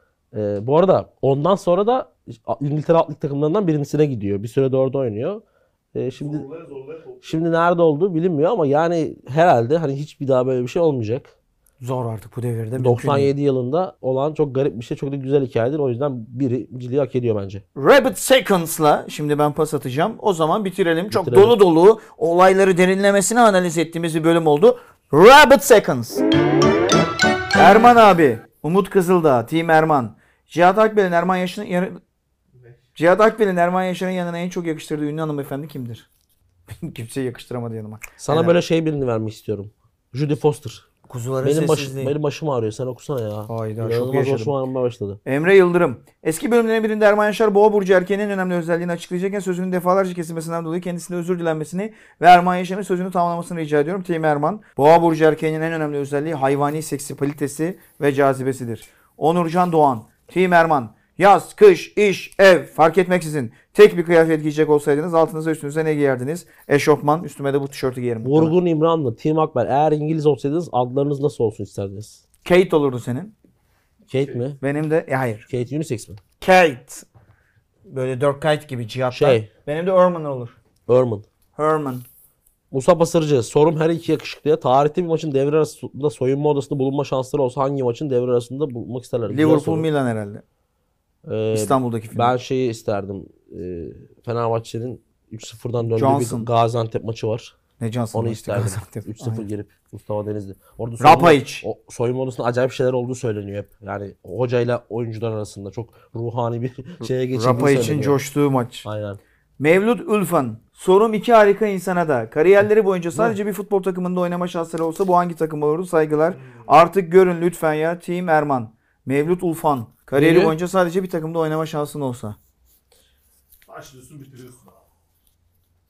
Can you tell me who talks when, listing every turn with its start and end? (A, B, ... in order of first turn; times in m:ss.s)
0:00.3-0:05.4 A
0:06.0-0:06.5 A
0:06.2-0:07.4 B
0:07.2-0:11.3 A
0:11.8-0:13.3 C
0:12.8-0:17.6 A
0:17.8-0:26.2 C
0:21.1-0:21.6 A
0:27.6-0:32.0 C
0:33.0-0:36.1 C
0:36.7-0:38.6 C
0:38.2-0:40.9 A
0:41.1-0:42.2 C
0:41.4-0:45.2 A
0:43.5-0:44.6 C
0:45.3-1:08.6 C
1:08.2-1:12.2 A
1:12.4-1:13.3 C
1:14.1-1:14.6 A
1:14.6-1:15.5 C
1:15.5-1:16.2 A
1:16.4-1:17.1 C
1:17.9-1:20.6 C
1:19.1-1:19.5 A
1:20.9-1:21.3 A
1:21.6-1:22.0 C
1:22.7-1:29.9 A
1:29.3-1:30.4 C
1:31.3-1:37.6 A
1:31.5-1:32.3 C
1:35.9-1:36.5 C
1:37.8-1:39.5 C
1:38.1-1:48.2 A
1:41.0-1:41.6 C
1:47.3-1:48.8 C
1:48.8-1:49.2 A
1:49.6-2:02.4 C
1:56.4-1:56.7 B
2:00.2-2:00.6 A
2:03.7-2:04.8 B